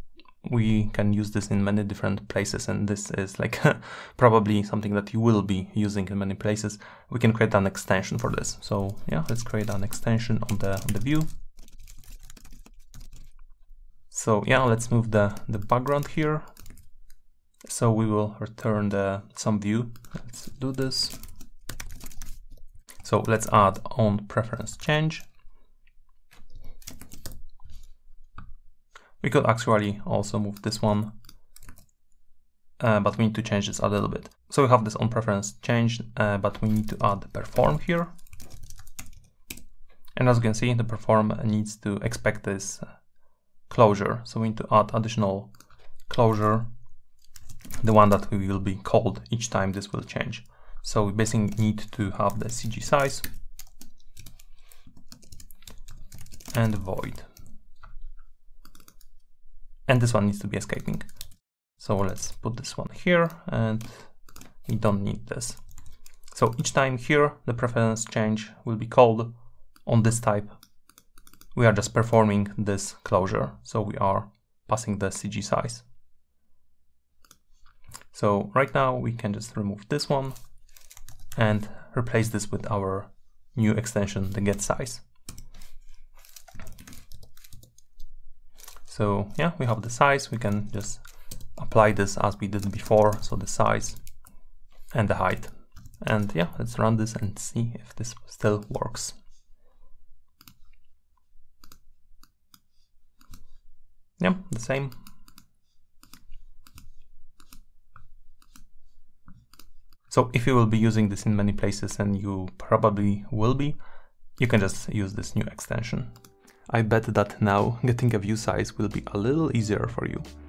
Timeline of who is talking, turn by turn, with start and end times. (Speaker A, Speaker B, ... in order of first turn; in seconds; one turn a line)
Speaker A: 0.4-11.3
Speaker A: 14.1-16.5
Speaker A: 17.7-21.2
Speaker A: 23.0-25.3
Speaker A: 29.2-31.1
Speaker A: 32.8-38.1
Speaker A: 40.2-42.9
Speaker A: 43.7-45.5
Speaker A: 46.1-46.7
Speaker A: 47.8-53.3
Speaker A: 56.5-57.3
Speaker A: 59.9-61.1
Speaker A: 61.8-64.1
Speaker A: 64.7-65.6
Speaker A: 66.3-69.3
Speaker A: 69.8-70.5
Speaker A: 71.5-75.8
Speaker A: 78.1-80.4
Speaker A: 81.4-85.0
Speaker A: 88.9-91.0
Speaker A: 91.6-94.0
Speaker A: 94.9-99.2
Speaker A: 104.2-104.9
Speaker A: 110.1-113.8
Speaker A: 114.4-116.1
Speaker A: 116.7-120.3